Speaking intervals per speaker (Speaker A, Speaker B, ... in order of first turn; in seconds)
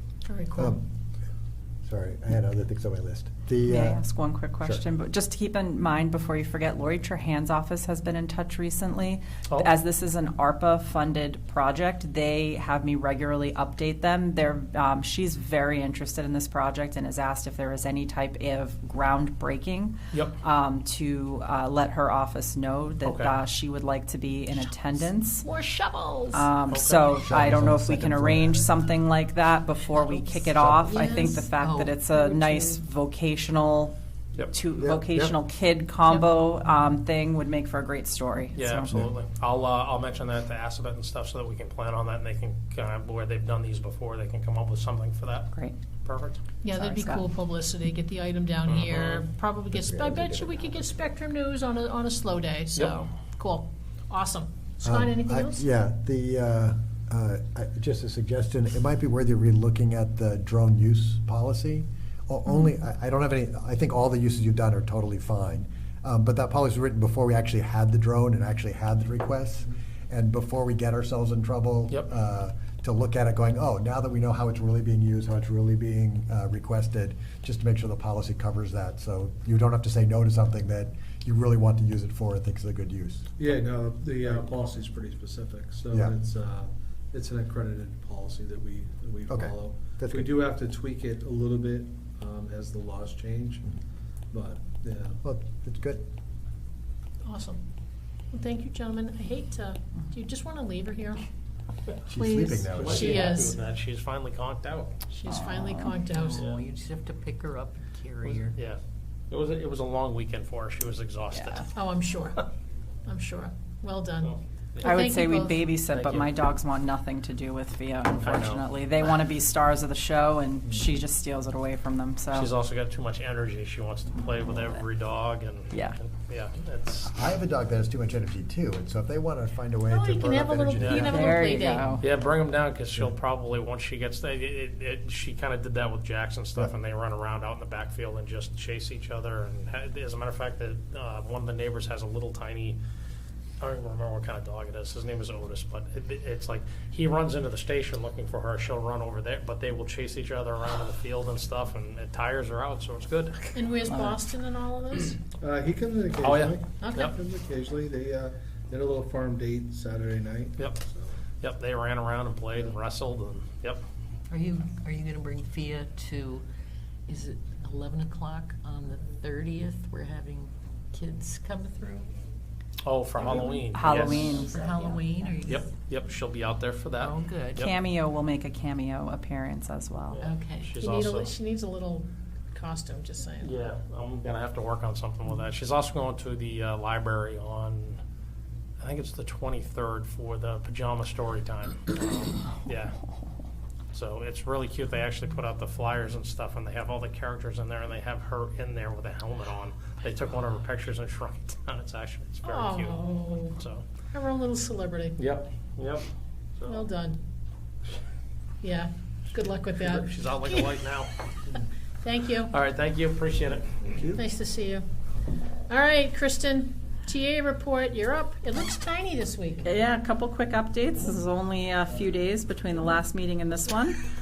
Speaker A: 0.2-0.8, 25.3-26.5, 46.6-55.6, 97.3-97.6, 98.3-101.2, 102.1-103.6, 105.1-106.4, 111.7-112.4, 113.1-115.7, 129.9-131.9, 153.6-155.2, 156.8-157.1, 180.8-183.5, 202.5-203.6, 204.1-205.2, 206.7-207.2, 208.6-210.1, 212.0-212.5, 214.2-214.8, 215.7-219.7
Speaker B: 0.6-0.8, 1.9-4.0, 27.2-28.7, 30.6-30.9, 34.8-35.4, 49.7-50.7, 54.8-83.3, 89.3-90.3, 95.2-96.0, 102.1-103.3, 127.1-131.4
Speaker C: 3.7-25.4, 26.3-34.0, 34.5-39.0, 46.8-47.2, 105.3-106.0, 111.3-111.7, 114.8-122.5, 125.7-126.0, 131.0-132.1, 153.9-154.2, 173.7-175.0, 177.6-180.2, 219.6-224.0
Speaker D: 23.1-23.4, 26.7-27.1, 38.5-45.5, 46.0-46.4, 48.7-49.2, 52.8-53.0, 102.7-105.0, 106.3-106.6, 108.2-111.7, 114.2-114.9, 115.8-116.3, 118.2-118.7, 122.3-127.1, 130.8-131.1, 132.0-142.8, 143.6-153.5, 156.2-157.1, 161.4-163.8, 172.8-174.4, 175.4-177.7, 180.1-181.3, 183.4-188.0, 188.8-192.9, 193.9-203.0, 203.6-203.8, 205.2-206.8, 209.8-211.2, 212.5-213.8
Speaker E: 30.8-32.6, 106.0-108.6, 164.3-166.4, 167.1-172.1, 173.3-175.7, 177.0-177.7, 180.2-180.8
Speaker F: 83.4-93.8, 94.3-95.2, 155.4-161.2, 213.8-214.2